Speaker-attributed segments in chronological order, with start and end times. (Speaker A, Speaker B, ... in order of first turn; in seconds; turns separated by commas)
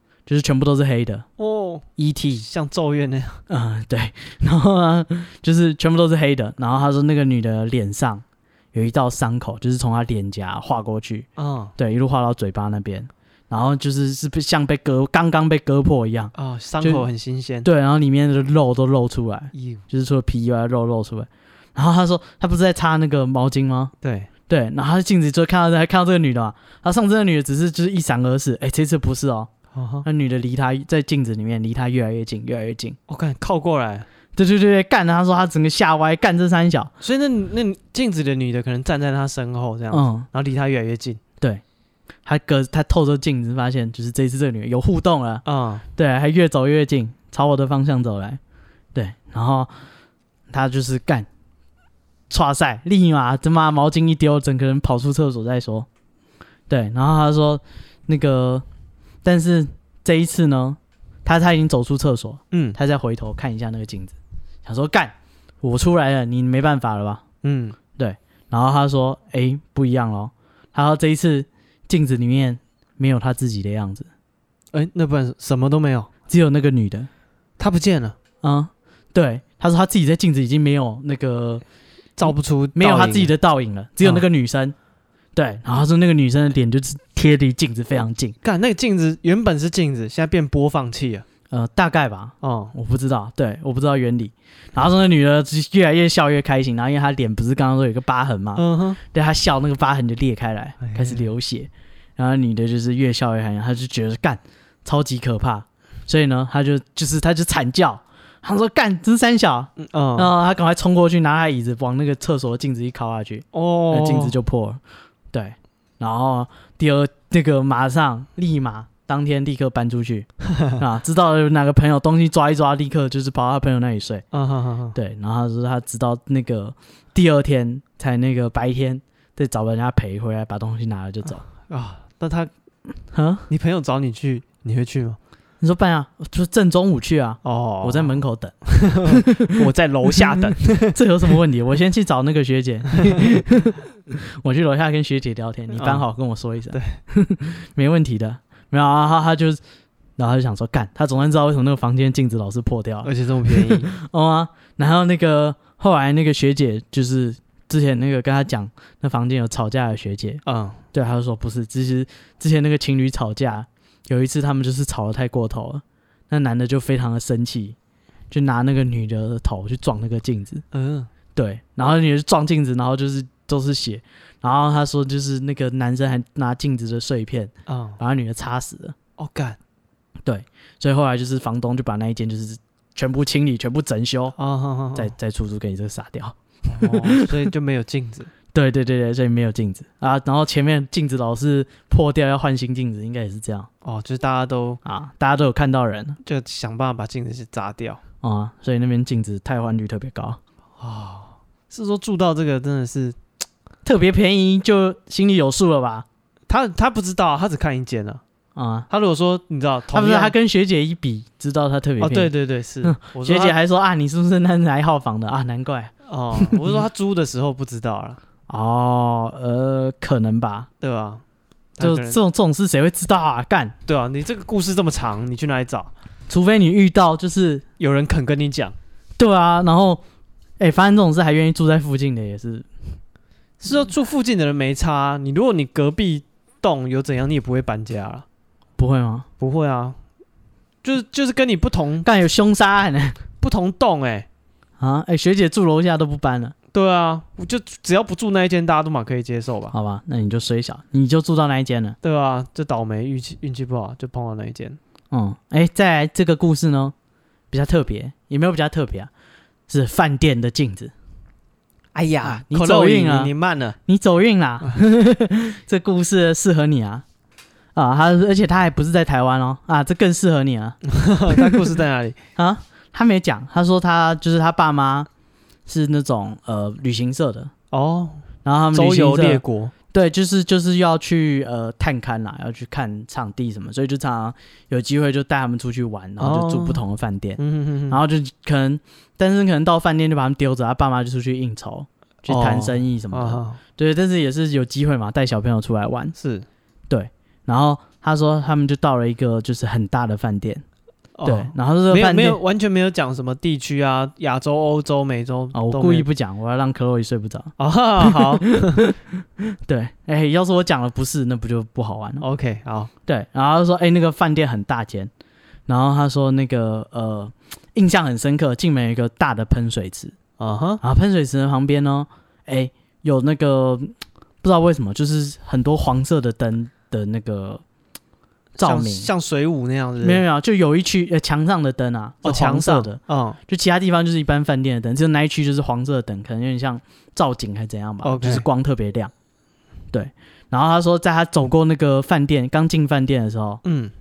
Speaker A: 0.3-1.3, Speaker B: 1.4-3.4, Speaker A: 2.0-2.4, Speaker A: 3.5-17.1, Speaker B: 11.4-11.7, Speaker B: 16.4-17.7, Speaker A: 17.6-23.9, Speaker B: 19.5-19.8, Speaker B: 24.0-24.3, Speaker A: 24.5-29.5, Speaker B: 29.7-30.1, Speaker A: 30.1-33.0, Speaker B: 33.1-34.1, Speaker A: 34.4-36.9, Speaker B: 37.0-41.2, Speaker A: 39.9-40.3, Speaker A: 42.2-45.4, Speaker B: 45.5-45.9, Speaker A: 46.0-48.4, Speaker A: 49.0-49.7, Speaker A: 50.5-51.3, Speaker A: 52.3-55.9, Speaker A: 56.7-58.6, Speaker A: 59.2-67.2, Speaker B: 62.5-62.8, Speaker B: 67.4-67.8, Speaker A: 68.0-74.1, Speaker B: 74.7-76.1, Speaker A: 76.3-77.1, Speaker B: 77.6-78.2, Speaker A: 78.4-81.6, Speaker B: 82.2-83.3, Speaker A: 82.2-84.8, Speaker A: 85.3-88.4, Speaker B: 88.4-91.2, Speaker A: 91.5-114.8, Speaker B: 92.4-92.7, Speaker B: 98.6-99.0, Speaker B: 100.8-101.2, Speaker B: 109.8-110.3, Speaker B: 113.5-114.4, Speaker A: 115.3-124.2, Speaker B: 124.3-125.0, Speaker A: 125.0-131.4, Speaker B: 131.7-132.5, Speaker A: 133.1-133.5, Speaker B: 133.5-135.2, Speaker A: 135.6-139.6, Speaker B: 137.4-141.0, Speaker A: 140.9-149.6, Speaker B: 145.7-146.1, Speaker B: 146.7-147.0, Speaker A: 150.2-160.4, Speaker B: 153.0-153.9, Speaker B: 160.5-160.8, Speaker A: 160.9-167.8, Speaker A: 168.3-170.6, Speaker B: 170.7-171.1, Speaker A: 171.3-179.0, Speaker B: 177.7-178.0, Speaker B: 179.2-179.6, Speaker A: 180.2-184.4, Speaker B: 184.4-185.1, Speaker A: 184.9-187.3, Speaker B: 186.7-188.3, Speaker A: 188.5-193.7, Speaker B: 193.8-194.8, Speaker A: 194.8-196.2, Speaker B: 196.2-198.0, Speaker A: 198.2-200.4, Speaker B: 200.8-203.2, Speaker A: 203.8-206.1, Speaker B: 206.5-208.2, Speaker A: 208.6-208.9, Speaker B: 208.9-210.3, Speaker A: 209.9-212.3, Speaker B: 212.0-213.6, Speaker A: 212.8-216.8, Speaker B: 216.1-218.2, Speaker A: 218.5-220.7, Speaker B: 220.8-221.2, Speaker B: 221.8-222.2, Speaker A: 221.8-223.7, Speaker B: 223.9-225.9, Speaker A: 226.3-227.7, Speaker B: 227.8-228.8, Speaker A: 229.2-230.0, Speaker A: 230.6-232.7, Speaker B: 233.6-238.2, Speaker A: 238.8-239.3, Speaker B: 239.4-240.0, Speaker B: 240.8-242.1, Speaker A: 242.1-243.2, Speaker B: 243.4-244.3, Speaker A: 244.8-246.6, Speaker B: 246.7-249.7, Speaker A: 249.7-252.0, Speaker B: 252.0-254.8, Speaker A: 255.1-256.9, Speaker A: 257.5-259.1, Speaker A: 259.7-260.9, Speaker B: 261.9-263.8, Speaker A: 262.2-263.3, Speaker A: 263.9-267.1, Speaker A: 267.8-270.8, Speaker B: 270.9-272.2, Speaker A: 272.4-275.1, Speaker A: 275.7-277.5, Speaker B: 277.7-279.7, Speaker A: 278.4-296.1, Speaker B: 286.2-286.8, Speaker B: 287.4-288.0, Speaker B: 292.3-293.6, Speaker B: 296.2-296.5, Speaker A: 296.9-300.6, Speaker B: 301.2-306.1, Speaker A: 301.3-302.4, Speaker A: 305.5-312.2, Speaker B: 307.6-308.9, Speaker B: 312.2-312.9, Speaker A: 313.1-315.1, Speaker A: 315.7-320.1, Speaker B: 320.4-320.8, Speaker A: 320.8-327.6, Speaker A: 328.6-329.1, Speaker B: 328.6-330.2, Speaker A: 330.0-339.1, Speaker B: 332.2-333.4, Speaker B: 338.0-338.5, Speaker A: 339.9-343.6, Speaker B: 343.6-343.9